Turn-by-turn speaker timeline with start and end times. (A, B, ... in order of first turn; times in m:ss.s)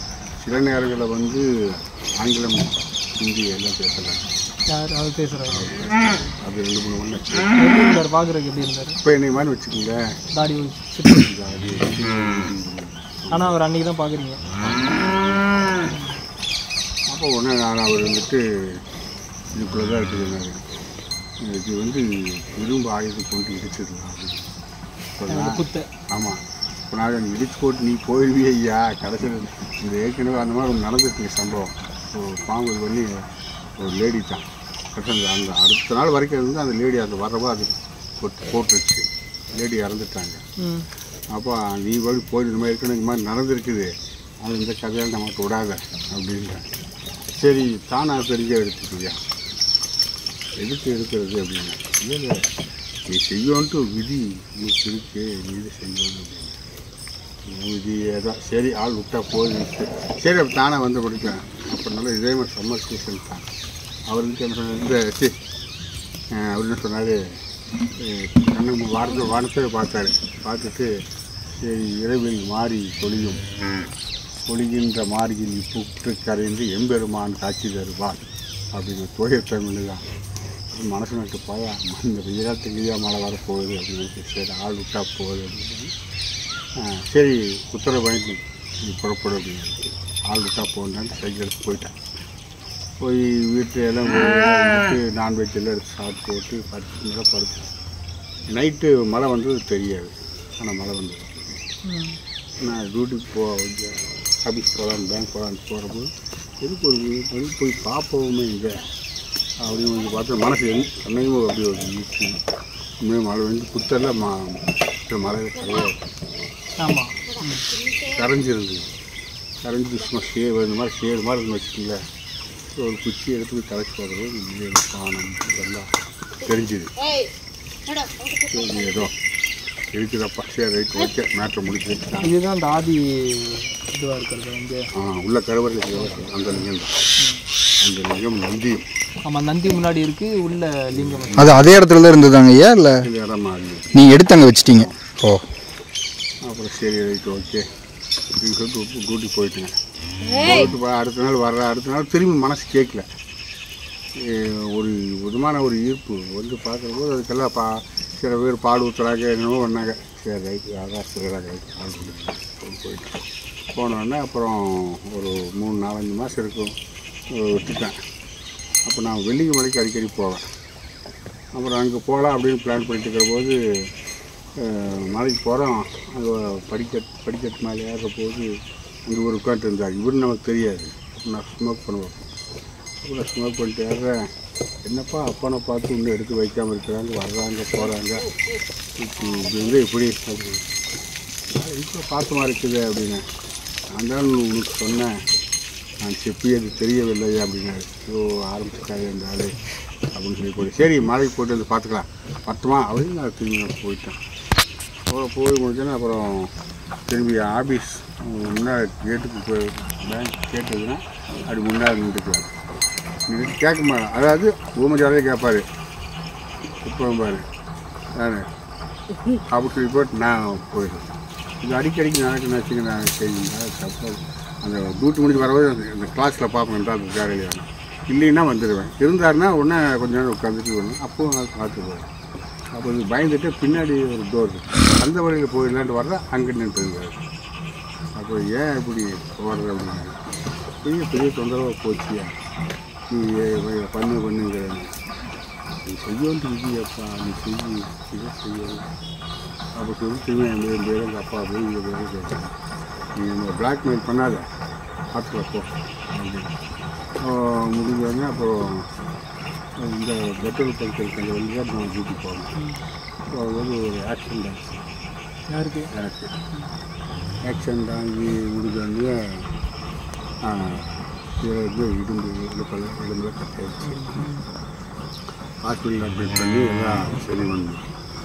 0:00.4-0:04.2 A
0:04.7-0:05.7 B
0:05.5-0:07.6 A
0:07.6-0:09.0 B
0:09.0-0:10.0 A
0:10.3-0:11.2 B
0:11.1-0:13.6 A
0:13.3-0:14.4 B
0:14.6-0:15.4 A
0:17.1-0:18.8 A
0:19.5-0:20.6 A
0:21.4-0:24.5 A
0:25.2-0:33.2 A
0:25.3-0:25.9 B
0:33.8-0:40.4 A
0:40.6-0:40.8 B
0:41.3-0:43.9 A
0:44.4-0:46.7 A
0:47.3-0:49.2 A
0:50.6-0:52.4 A
0:53.1-0:56.6 A
0:57.4-1:03.5 A
1:04.1-1:05.3 A
1:06.3-1:07.2 A
1:08.0-1:10.9 A
1:11.6-1:13.4 A
1:14.5-1:20.0 A
1:20.7-1:25.9 A
1:26.8-1:32.0 A
1:33.0-1:37.7 A
1:38.5-1:41.7 A
1:41.8-1:42.2 B
1:42.6-1:46.1 A
1:46.6-1:48.8 A
1:49.6-1:52.3 A
1:53.0-1:56.0 A
1:56.8-1:57.7 B
1:58.0-1:58.8 A
1:59.6-2:02.0 A
2:02.8-2:05.9 A
2:06.4-2:06.9 A
2:08.0-2:08.4 C
2:08.4-2:09.1 A
2:09.9-2:12.3 A
2:12.2-2:14.8 B
2:15.0-2:17.0 A
2:16.0-2:16.3 B
2:17.8-2:18.8 A
2:19.2-2:21.6 B
2:20.9-2:21.5 A
2:21.4-2:23.1 C
2:23.0-2:24.1 A
2:23.9-2:25.5 C
2:26.4-2:27.6 A
2:28.4-2:29.7 A
2:30.3-2:33.0 A
2:34.2-2:46.7 A
2:47.3-2:48.0 A
2:48.8-2:50.5 A
2:51.6-2:53.6 A
2:54.6-2:58.5 A
2:59.0-3:02.3 A
3:03.0-3:04.3 A
3:04.8-3:08.3 A
3:09.0-3:10.7 A
3:11.5-3:13.2 A
3:13.9-3:15.2 A
3:16.0-3:19.6 A
3:20.1-3:24.2 A
3:25.1-3:26.5 A
3:27.1-3:32.6 A
3:33.3-3:35.6 A
3:36.8-3:37.4 A
3:38.2-3:38.5 A
3:39.4-3:52.1 A
3:52.7-3:57.2 A
3:58.1-4:00.2 A
4:00.8-4:02.3 A
4:03.1-4:04.9 A
4:05.8-4:08.9 A
4:09.8-4:12.5 A
4:13.1-4:14.5 A
4:15.1-4:16.6 A
4:17.2-4:18.9 A
4:19.8-4:22.5 A
4:22.6-4:22.8 B
4:23.3-4:24.8 A
4:25.5-4:25.9 B
4:25.9-4:26.3 A
4:27.4-4:29.5 A
4:30.4-4:34.3 A
4:33.8-4:34.4 B
4:35.6-4:37.8 A